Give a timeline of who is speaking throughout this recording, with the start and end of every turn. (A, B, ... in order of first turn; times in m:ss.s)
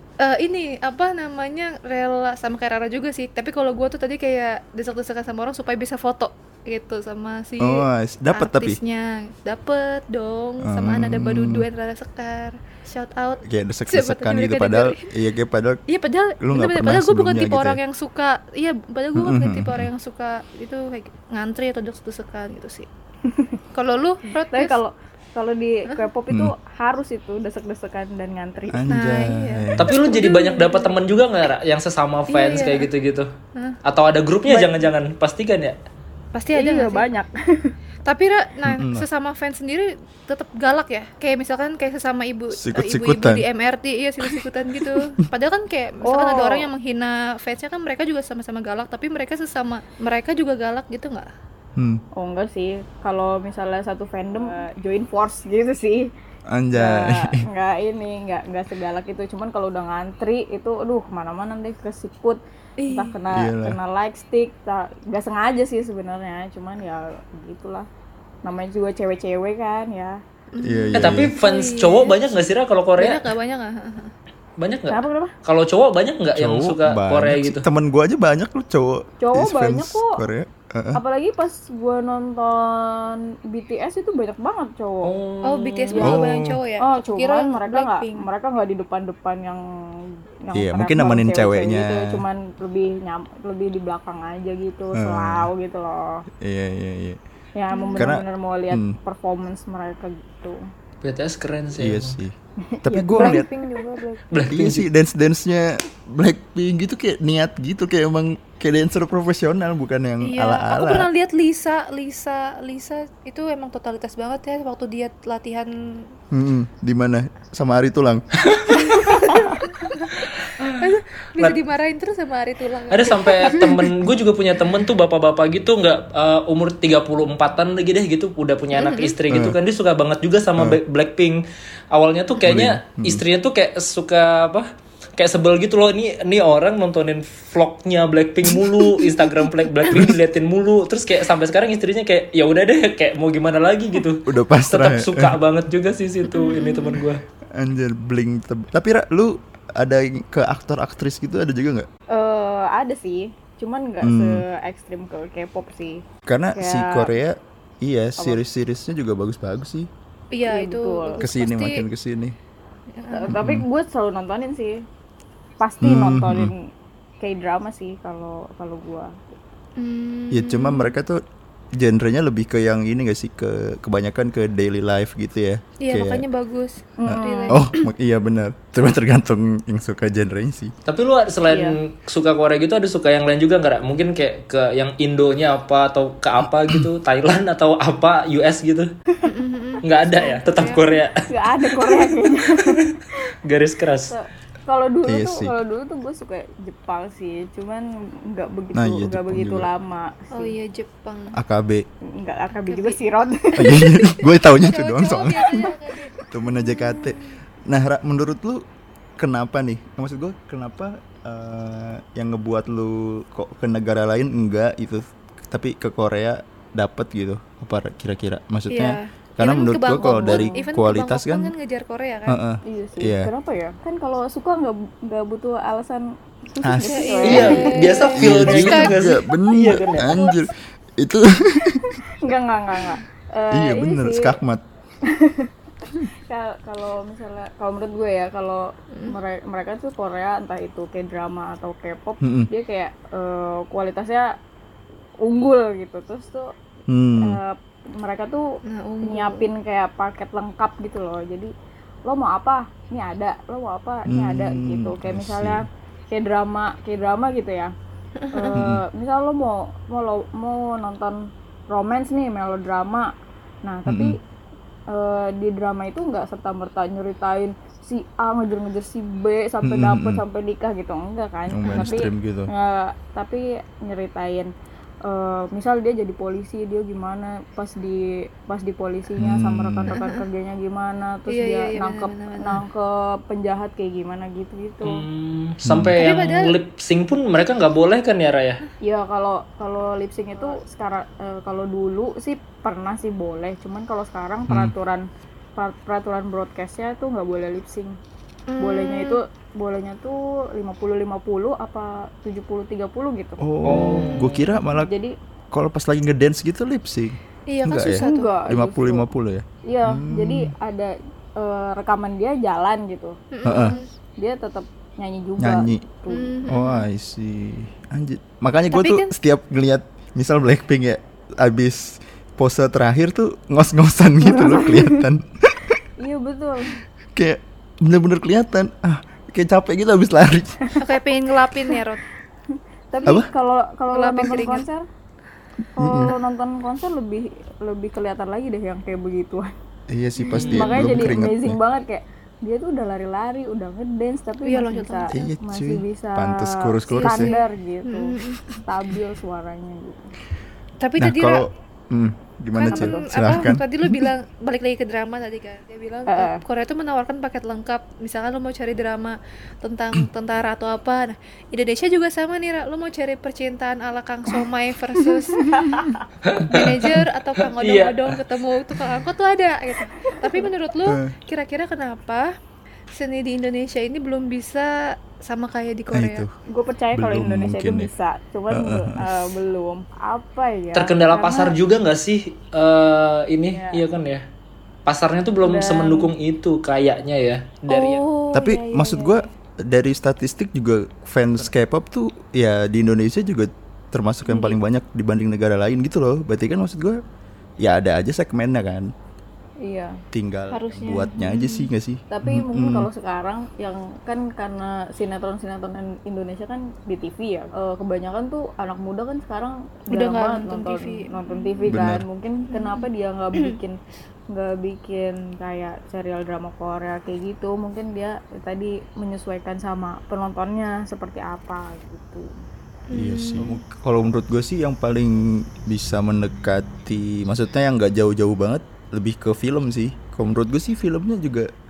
0:00.2-0:15.1 A
0:07.6-0:08.8 B
0:10.6-0:11.6 B
0:13.4-0:15.8 B
0:15.9-0:22.9 A
0:16.4-0:17.8 B
0:19.1-0:19.9 B
0:23.3-0:23.6 C
0:23.7-0:24.8 A
0:24.5-0:28.9 C
0:28.7-0:29.9 B
0:28.9-0:31.0 A
0:29.8-0:33.3 D
0:32.3-0:32.9 A
0:33.8-0:35.8 D
0:34.4-0:34.9 C
0:36.3-0:37.0 A
0:36.5-0:37.7 C
0:38.0-0:51.3 A
0:38.6-0:39.0 B
0:42.5-0:43.4 B
0:46.0-0:46.7 C
0:51.8-0:52.0 B
0:52.2-0:56.1 C
0:56.5-0:57.4 B
0:56.8-1:07.9 C
1:02.8-1:03.1 A
1:03.3-1:03.8 B
1:08.4-1:10.2 C
1:10.5-1:11.3 B
1:10.6-1:12.2 A
1:11.0-1:13.3 D
1:13.0-1:14.1 A
1:14.6-1:17.6 D
1:14.9-1:15.3 C
1:16.3-1:21.0 B
1:19.2-1:20.2 C
1:20.9-1:25.1 C
1:25.0-1:26.0 D
1:25.4-1:28.3 A
1:25.9-1:26.3 C
1:26.0-1:26.6 B
1:26.8-1:36.2 C
1:30.5-1:32.2 B
1:34.9-1:35.5 B
1:36.4-1:37.2 B
1:37.6-1:40.6 C
1:37.7-1:38.2 A
1:38.0-1:39.0 B
1:41.0-1:42.2 D
1:41.8-1:43.4 B
1:42.7-1:44.2 C
1:44.3-1:44.9 D
1:44.5-1:51.1 B
1:50.2-1:56.1 A
1:56.3-1:58.2 B
1:58.4-1:59.4 D
1:58.8-1:59.6 A
2:00.1-2:00.8 D
2:00.7-2:03.7 A
2:02.9-2:11.4 D
2:08.7-2:09.1 A
2:09.3-2:09.6 B
2:11.9-2:27.2 D
2:12.4-2:13.2 B
2:19.9-2:20.2 B
2:24.2-2:25.4 B
2:26.3-2:27.0 A
2:27.5-2:31.9 B
2:32.1-2:36.0 C
2:34.0-2:34.4 B
2:36.2-2:39.9 B
2:36.6-2:37.1 C
2:40.3-2:41.8 A
2:40.5-2:41.2 C
2:41.2-2:42.4 B
2:43.0-2:43.4 A
2:43.1-2:44.8 C
2:43.3-2:43.6 B
2:45.6-2:46.7 C
2:45.8-2:46.5 B
2:47.2-2:49.2 C
2:49.8-2:50.9 A
2:50.3-2:51.2 B
2:51.8-2:56.2 B
2:55.8-2:57.9 A
2:57.0-2:57.6 C
2:57.0-3:00.7 B
3:00.9-3:08.9 D
3:01.5-3:01.8 C
3:09.2-3:11.0 A
3:09.8-3:11.2 D
3:11.2-3:12.8 C
3:11.8-3:12.9 D
3:13.4-3:14.1 D
3:14.1-3:20.5 C
3:15.1-3:15.5 B
3:18.7-3:19.7 B
3:20.3-3:21.4 A
3:21.3-3:21.8 B
3:22.0-3:24.0 C
3:22.6-3:23.0 A
3:23.6-3:25.7 B
3:23.7-3:27.3 A
3:26.3-3:28.6 B
3:29.2-3:41.5 B
3:38.7-3:42.4 A
3:40.1-3:40.5 C
3:42.3-3:43.3 B
3:42.6-3:48.0 C
3:46.6-3:52.0 B
3:46.8-3:49.2 A
3:47.2-3:50.2 D
3:50.0-3:50.5 A
3:51.7-3:54.4 C
3:53.5-3:54.6 B
3:55.0-4:04.3 C
4:02.2-4:02.5 B
4:05.2-4:06.5 C
4:06.9-4:07.4 B
4:07.2-4:08.4 C
4:08.6-4:09.4 A
4:09.0-4:11.5 C
4:12.0-4:17.7 C
4:14.1-4:15.6 B
4:18.2-4:18.6 A
4:18.3-4:21.2 C
4:18.5-4:18.8 B
4:21.7-4:23.1 C
4:23.6-4:24.1 C
4:23.9-4:24.1 B
4:24.9-4:34.5 C
4:29.6-4:30.2 B
4:31.5-4:32.5 B
4:35.0-4:45.0 C
4:39.2-4:39.9 B
4:39.9-4:40.2 A
4:41.3-4:42.6 A
4:44.8-4:48.6 D
4:45.6-4:46.0 B
4:46.0-4:46.5 A
4:48.8-4:55.0 C
4:54.5-4:54.7 B
4:55.6-4:58.0 C
4:58.5-4:59.2 A
4:58.6-5:03.9 C
5:03.4-5:04.9 B
5:03.6-5:04.4 D
5:04.7-5:05.1 C
5:05.5-5:10.5 B
5:07.5-5:08.4 A
5:07.8-5:09.1 C
5:09.6-5:13.2 C
5:13.3-5:13.9 A
5:13.4-5:13.8 B
5:14.2-5:16.4 C
5:15.4-5:15.8 B
5:16.1-5:16.9 A
5:16.5-5:25.8 B
5:18.7-5:19.1 A
5:24.2-5:25.0 C
5:26.0-5:26.8 C
5:27.2-5:30.6 B
5:30.8-5:32.0 A
5:32.9-5:34.8 C
5:33.9-5:34.6 A
5:35.8-5:39.5 C
5:35.8-5:36.1 B
5:39.9-5:41.6 B
5:40.2-5:40.8 A
5:40.3-5:40.9 D
5:40.5-5:50.1 C
5:44.4-5:45.2 A
5:45.1-5:47.3 B
5:46.9-5:48.6 A
5:50.8-5:51.5 A
5:51.0-5:54.1 B
5:52.6-6:05.9 A
5:52.7-5:53.5 C
5:56.1-5:56.4 C
6:05.3-6:06.1 C
6:06.2-6:07.0 D
6:06.5-6:12.3 A
6:07.6-6:08.2 D
6:10.0-6:10.5 C
6:10.8-6:11.1 B
6:12.9-6:16.2 A
6:15.9-6:16.3 B
6:16.5-6:21.5 C
6:16.9-6:17.9 B
6:18.5-6:19.2 B
6:20.7-6:24.2 D
6:21.2-6:21.5 A
6:23.5-6:23.8 C
6:24.9-6:28.0 D
6:25.4-6:26.1 C
6:27.7-6:29.3 A
6:28.3-6:37.0 B
6:34.3-6:34.6 A
6:37.6-6:38.9 B
6:39.6-6:40.0 C
6:40.1-6:42.9 B
6:40.5-6:41.7 A
6:42.1-6:53.8 C
6:49.9-6:51.8 A
6:51.7-6:52.0 B
6:52.5-6:52.8 A
6:54.3-7:02.3 C
7:02.9-7:03.6 A
7:02.9-7:11.5 B